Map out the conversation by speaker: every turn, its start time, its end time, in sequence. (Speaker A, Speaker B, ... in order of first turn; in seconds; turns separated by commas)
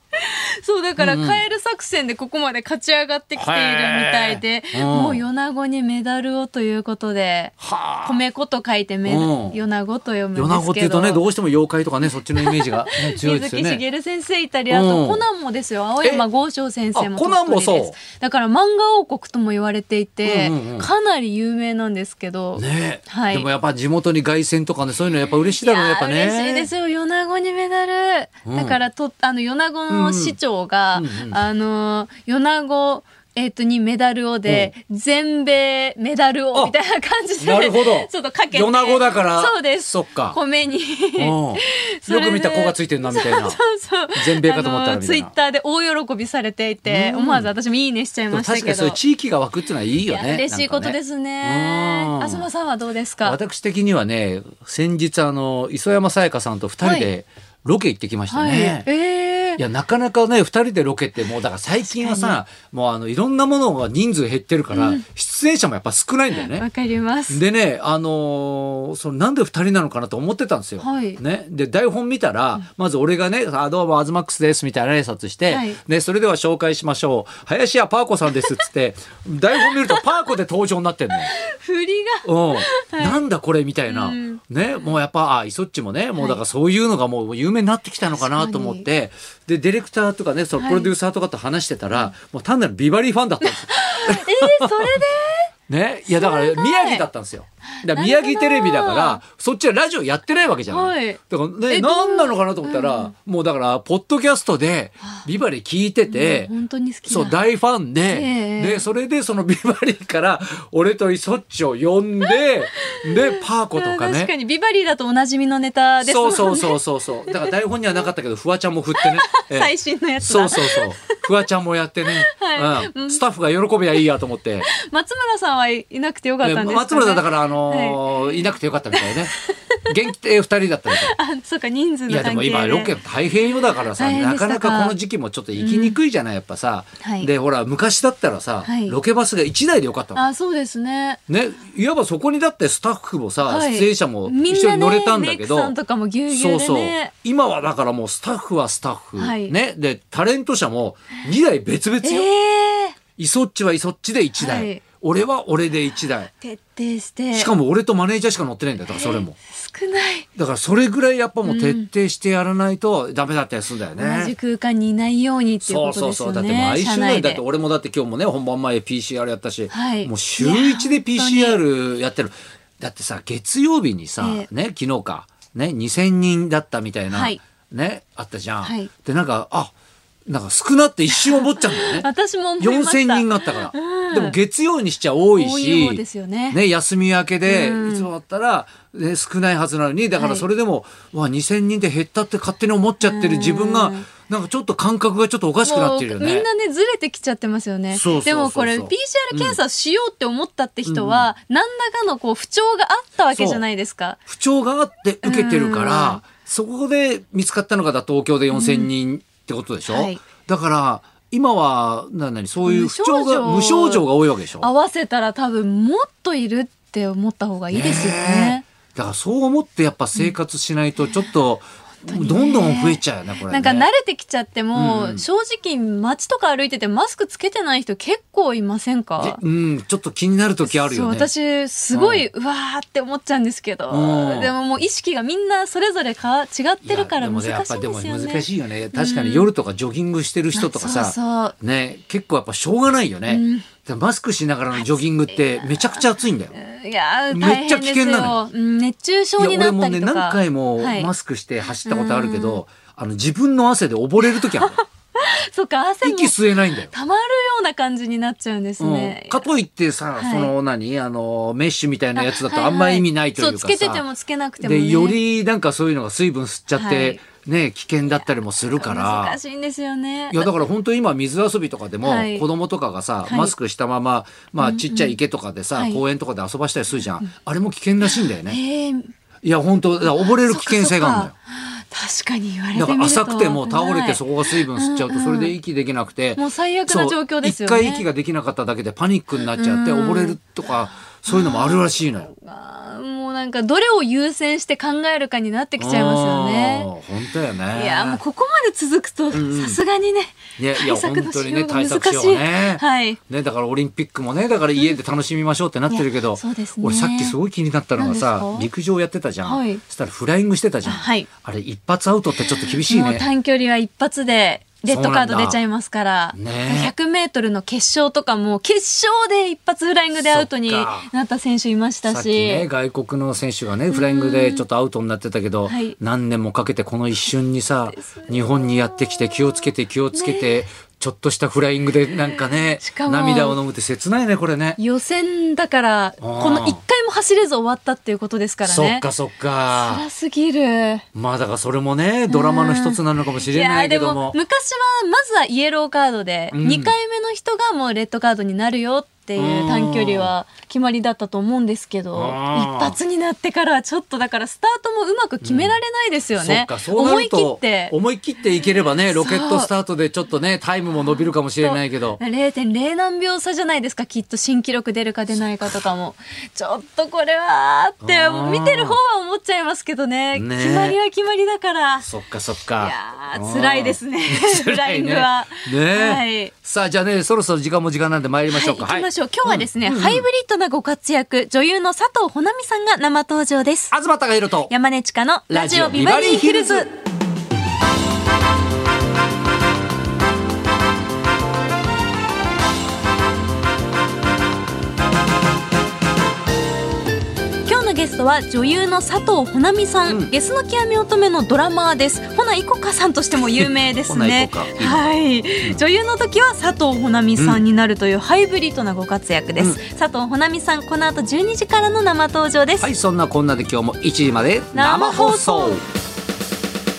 Speaker A: 0.1-11.2, Speaker B: 1.0-1.4, Speaker B: 3.4-5.2, Speaker B: 7.6-8.2, Speaker B: 9.0-9.6, Speaker B: 10.3-13.8, Speaker A: 12.4-23.5, Speaker B: 14.7-15.2, Speaker B: 16.9-18.0, Speaker B: 20.2-20.9, Speaker B: 22.6-26.7, Speaker A: 25.6-49.0, Speaker B: 28.4-28.8, Speaker B: 29.9-30.4, Speaker B: 30.9-31.4, Speaker B: 34.5-34.7, Speaker B: 37.4-40.4, Speaker B: 41.2-43.6, Speaker B: 44.1-45.3, Speaker B: 46.8-47.5, Speaker B: 48.3-52.5, Speaker A: 50.0-53.4, Speaker B: 53.2-58.9, Speaker A: 56.8-57.1, Speaker A: 58.3-59.6, Speaker B: 59.6-66.7, Speaker A: 61.9-62.4, Speaker A: 64.7-65.0, Speaker A: 66.3-67.4, Speaker B: 67.3-81.3, Speaker A: 70.8-71.2, Speaker A: 75.5-75.8, Speaker A: 79.6-80.0, Speaker A: 81.3-83.2, Speaker B: 82.2-94.9, Speaker A: 83.9-84.4, Speaker A: 88.1-88.9, Speaker A: 90.6-90.9, Speaker A: 93.4-95.5, Speaker B: 95.7-106.5, Speaker A: 96.1-97.0, Speaker A: 97.8-99.2, Speaker A: 100.7-101.2, Speaker A: 101.7-103.1, Speaker A: 106.1-107.4, Speaker B: 107.0-114.3, Speaker A: 108.1-108.8, Speaker A: 112.2-116.8, Speaker B: 116.0-124.7, Speaker A: 119.0-121.0, Speaker A: 122.3-123.2, Speaker A: 124.6-129.8, Speaker B: 126.4-129.3, Speaker B: 129.9-131.1, Speaker A: 130.9-132.9, Speaker B: 132.1-140.2, Speaker A: 134.0-134.9, Speaker A: 135.6-136.0, Speaker A: 137.0-137.3, Speaker A: 138.6-139.0, Speaker A: 140.1-141.2, Speaker B: 141.3-145.7, Speaker A: 143.4-147.1, Speaker B: 146.3-152.3, Speaker A: 149.2-149.5, Speaker A: 152.0-153.0, Speaker B: 153.2-156.3, Speaker A: 154.4-154.8, Speaker A: 156.4-157.5, Speaker B: 157.3-159.3, Speaker A: 158.9-160.3, Speaker B: 160.3-164.3, Speaker A: 161.4-161.9, Speaker A: 164.0-167.4, Speaker B: 165.6-179.7, Speaker A: 169.7-171.6, Speaker A: 174.2-174.5, Speaker A: 177.1-177.4, Speaker A: 178.6-178.9, Speaker B: 180.3-182.1, Speaker A: 181.1-184.4, Speaker B: 182.6-196.4, Speaker A: 185.3-186.6, Speaker A: 187.4-188.1, Speaker A: 190.2-190.5, Speaker A: 193.0-194.1, Speaker A: 195.6-204.2, Speaker B: 197.9-199.6, Speaker B: 200.8-201.3, Speaker B: 203.3-203.6, Speaker B: 204.3-214.7, Speaker A: 205.2-206.2, Speaker A: 208.5-208.9, Speaker A: 209.9-210.2, Speaker A: 212.6-214.0, Speaker A: 214.6-218.6, Speaker B: 217.7-223.9, Speaker A: 222.1-229.4, Speaker B: 224.7-225.2, Speaker B: 229.2-231.3, Speaker A: 230.6-239.5, Speaker B: 231.9-232.2, Speaker B: 233.9-234.5, Speaker B: 236.8-246.6, Speaker A: 240.5-241.6, Speaker A: 243.3-243.7, Speaker A: 244.7-251.1, Speaker B: 247.3-248.4, Speaker B: 249.4-254.8, Speaker A: 251.8-252.6, Speaker A: 254.2-259.4, Speaker B: 256.0-256.9, Speaker B: 258.8-264.0, Speaker A: 260.1-260.5, Speaker A: 262.1-265.2, Speaker B: 264.6-269.4, Speaker A: 266.7-267.2, Speaker A: 268.1-270.5, Speaker B: 270.3-278.6, Speaker A: 272.0-272.4, Speaker A: 273.2-273.5, Speaker A: 274.6-275.2, Speaker A: 275.7-276.0, Speaker A: 278.0-279.1, Speaker B: 279.4-281.3, Speaker A: 280.1-285.5, Speaker B: 282.7-292.3, Speaker A: 286.4-288.1, Speaker A: 289.5-290.5, Speaker A: 291.1-296.9, Speaker B: 295.8-298.2, Speaker A: 297.7-303.2, Speaker B: 299.3-299.8, Speaker B: 300.6-313.2, Speaker A: 305.9-307.4, Speaker A: 307.9-308.7, Speaker A: 309.4-309.8, Speaker A: 310.8-311.3, Speaker A: 312.4-322.7, Speaker B: 314.9-315.6, Speaker B: 316.3-316.9, Speaker B: 320.1-321.1, Speaker B: 322.1-334.8, Speaker A: 323.9-324.6, Speaker A: 325.6-326.0, Speaker A: 327.9-330.6, Speaker A: 332.3-333.6, Speaker A: 334.8-339.1, Speaker B: 336.2-336.8, Speaker B: 338.6-340.0, Speaker A: 339.7-341.0, Speaker B: 341.1-344.4, Speaker A: 342.3-357.9, Speaker B: 346.5-346.9, Speaker B: 349.4-350.3, Speaker B: 352.1-353.0, Speaker B: 355.4-355.8, Speaker B: 356.4-362.2, Speaker A: 359.1-359.7, Speaker A: 361.6-372.1, Speaker B: 368.0-369.0, Speaker B: 370.3-371.0, Speaker B: 372.0-380.2, Speaker A: 372.8-376.5, Speaker A: 378.5-383.9, Speaker B: 383.9-384.7, Speaker A: 384.7-386.9, Speaker B: 385.5-386.9, Speaker A: 397.6-412.9, Speaker B: 400.1-400.3, Speaker B: 403.4-405.8, Speaker B: 407.4-407.6, Speaker B: 412.8-415.9, Speaker A: 414.7-415.8